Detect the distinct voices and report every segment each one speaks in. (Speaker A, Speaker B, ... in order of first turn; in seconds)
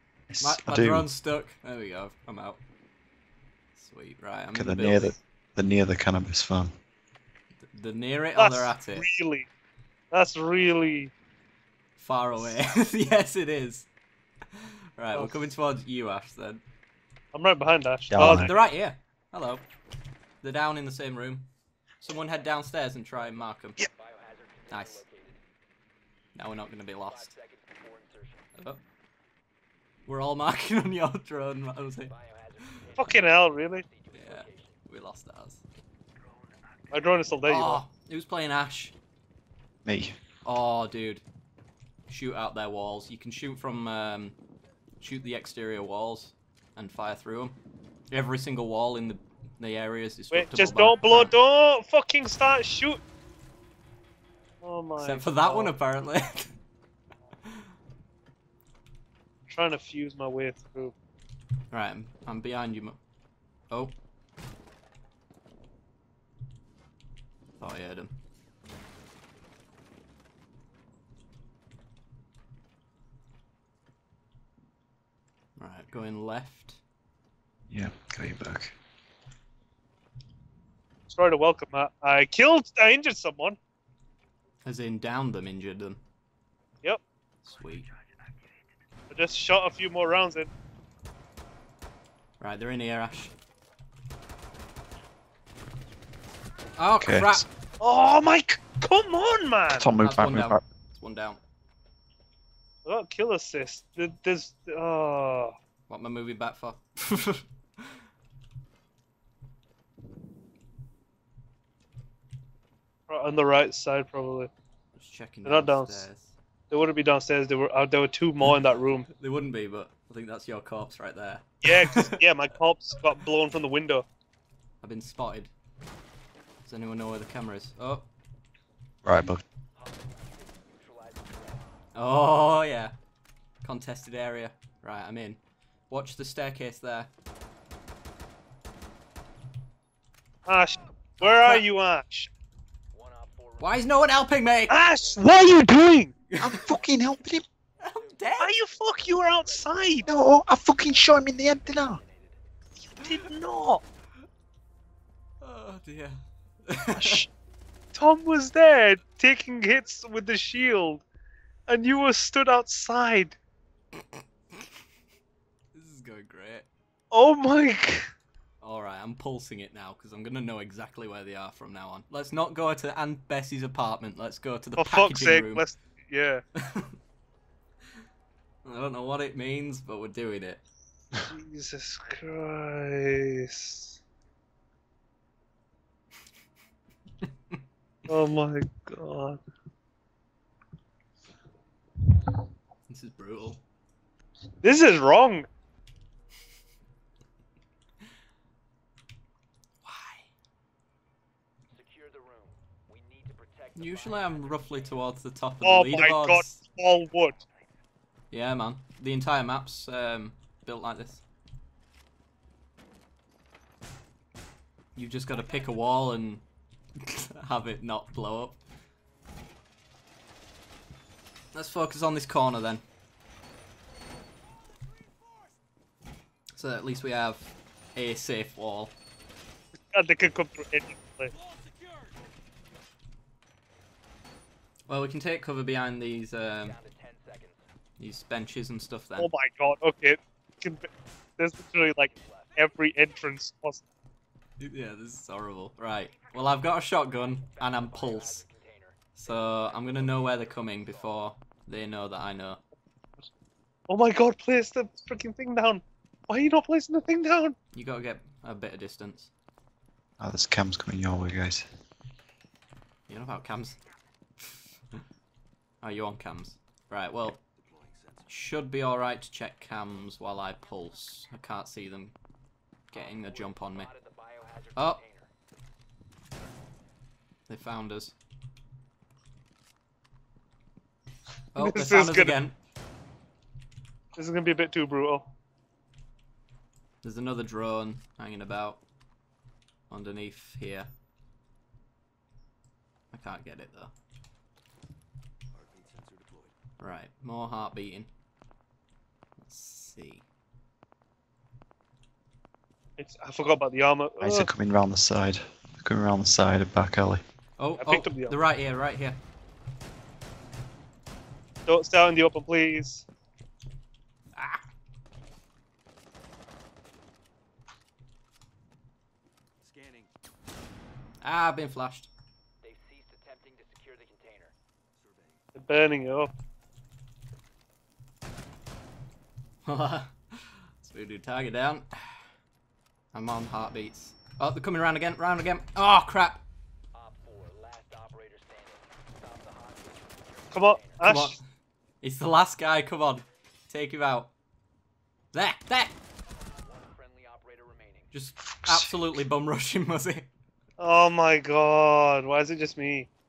Speaker A: 0.3-1.1, 4.5-6.7, 18.1-18.5, 39.9-40.1, 77.7-78.7, 97.0-97.4, 99.8-100.6, 129.0-129.4, 146.4-147.4, 150.1-152.0, 156.9-157.3, 260.2-261.6, 304.2-307.2, 348.4-348.9
Speaker B: 0.4-2.6, 3.7-5.1, 7.7-9.1, 12.0-13.9, 14.5-16.6, 18.2-19.6, 20.4-21.5, 22.0-23.8, 24.7-25.0, 26.3-27.3, 30.1-33.0, 34.1-35.6, 37.4-38.9, 40.4-41.2, 42.1-44.3, 45.0-47.6, 48.1-51.4, 55.0-56.5, 61.7-63.0, 67.6-68.2, 75.6-76.8, 84.6-86.0, 87.4-87.8, 92.4-93.3, 96.8-97.5, 100.0-101.4, 105.9-107.9, 115.0-116.3, 119.1-122.2, 124.8-125.5, 126.7-128.1, 131.9-132.9, 133.6-135.4, 135.9-137.1, 141.2-141.6, 143.6-144.8, 146.3-146.6, 147.8-148.5, 155.4-157.2, 165.7-166.7, 168.6-175.6, 176.5-176.9, 178.6-180.6, 192.9-193.6, 199.8-200.2, 203.8-206.6, 208.3-211.2, 214.9-216.4, 217.0-218.6, 221.5-222.8, 226.5-228.9, 234.9-236.8, 238.0-239.3, 244.6-248.4, 249.2-252.6, 257.7-259.3, 263.1-263.8, 265.8-267.4, 268.3-272.1, 272.9-273.9, 274.8-275.0, 277.5-278.1, 281.5-282.5, 287.0-288.8, 289.9-290.9, 293.1-293.9, 296.8-298.1, 299.4-300.2, 307.6-309.2, 314.3-314.6, 321.2-322.1, 329.6-332.2, 333.1-336.4, 341.0-341.4, 342.0-344.3, 345.3-345.9, 348.1-350.3
Speaker C: 8.3-9.5, 10.1-11.1, 17.3-18.5, 33.0-33.8, 36.9-37.8, 50.3-53.0, 54.6-55.7, 59.5-60.9, 81.1-83.6, 89.1-90.5, 97.8-99.9, 102.8-105.5, 113.1-114.5, 115.4-116.0, 116.7-119.1, 121.6-124.0, 140.5-142.3, 144.7-146.1, 148.4-150.1, 153.0-153.8, 157.9-161.0, 161.7-163.3, 167.1-168.1, 174.8-176.4, 181.2-184.0, 188.1-189.4, 194.6-195.5, 205.6-207.4, 229.9-231.3, 239.2-243.8, 253.9-257.6, 281.6-282.4, 284.1-285.3, 303.0-304.5, 307.8-308.4, 311.6-313.1, 325.5-326.3, 340.5-341.4, 350.8-353.1
Speaker D: 23.8-25.4, 27.0-28.5, 32.1-34.8, 129.8-131.8, 142.9-144.1, 144.9-145.3, 146.6-147.0, 147.9-152.4, 201.7-205.1, 215.3-215.6, 236.6-237.6, 242.0-242.7, 246.1-246.5, 247.2-251.2, 272.9-275.3, 322.6-324.5, 336.9-341.2, 346.6-348.1
Speaker E: 267.6-268.3, 295.5-296.5, 319.6-320.1, 324.9-325.4